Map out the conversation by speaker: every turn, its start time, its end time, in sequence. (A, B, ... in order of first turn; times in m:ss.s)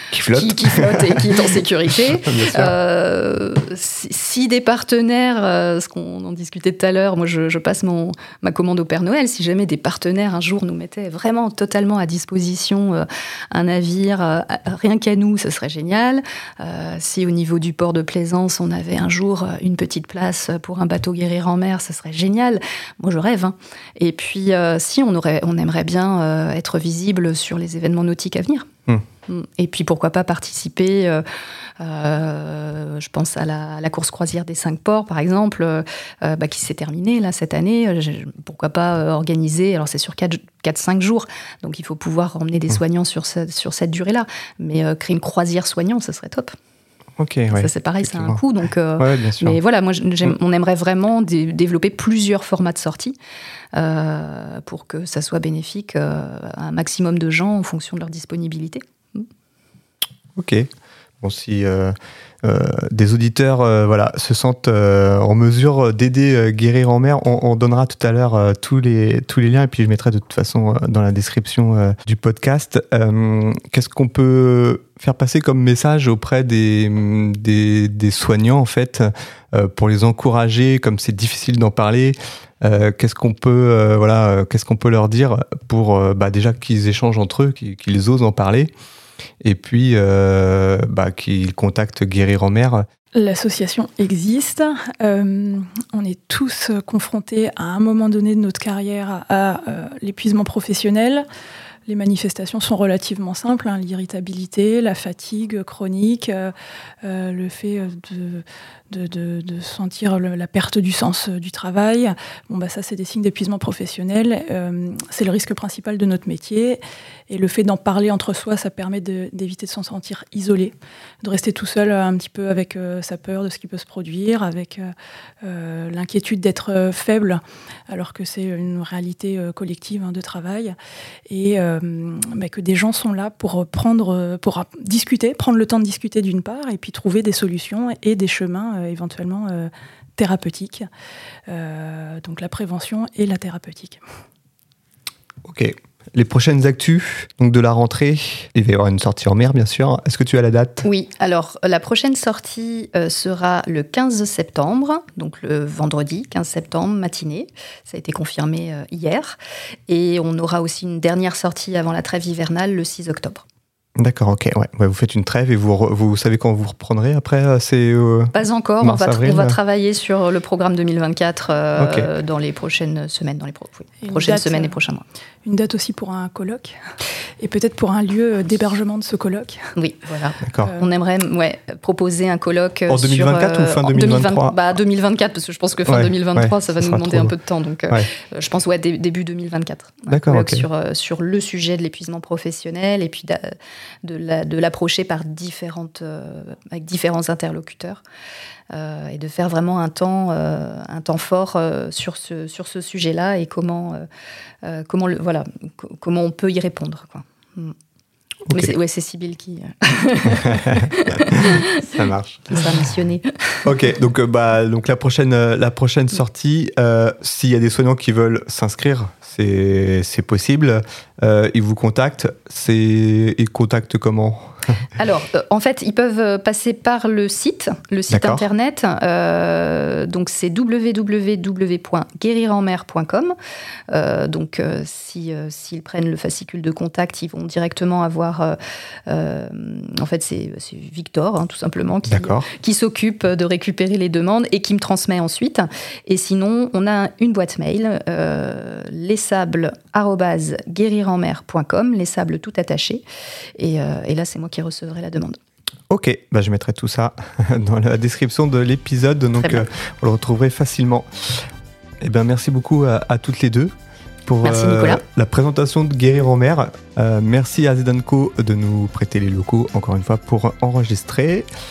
0:00.1-0:01.5 A
0:00.3-0:28.7 B
0:02.2-0:02.7 A
0:29.3-0:31.2 B
0:31.8-0:46.5 B
0:47.2-0:48.4 A
0:47.5-0:53.2 B
0:49.0-0:49.6 A
0:53.7-0:59.3 B
1:00.4-1:00.7 A
1:01.2-1:28.7 A
1:29.4-1:32.8 A
1:33.1-1:41.2 C
1:41.9-2:10.8 C
2:11.3-2:20.9 C
2:21.5-2:24.0 C
2:25.4-2:30.8 A
2:30.8-2:39.4 B
2:39.9-2:43.4 B
2:44.0-2:49.6 A
2:48.3-2:55.0 B
2:51.8-2:52.1 A
2:54.0-2:54.8 C
2:55.4-2:56.8 C
2:57.4-2:59.7 C
2:59.8-3:18.0 B
3:00.4-3:00.7 A
3:02.9-3:04.6 A
3:05.9-3:07.3 A
3:10.1-3:10.6 A
3:18.7-3:24.0 B
3:24.6-3:27.8 B
3:28.5-3:28.7 A
3:28.5-3:31.9 B
3:30.3-3:32.7 A
3:32.5-3:33.7 B
3:33.6-3:44.7 A
3:45.0-3:53.4 B
3:48.1-3:48.5 A
3:53.9-4:13.0 B
4:02.1-4:02.5 A
4:13.6-4:15.4 B
4:15.9-4:21.5 A
4:22.0-4:23.7 A
4:24.3-4:31.5 A
4:24.4-4:25.0 B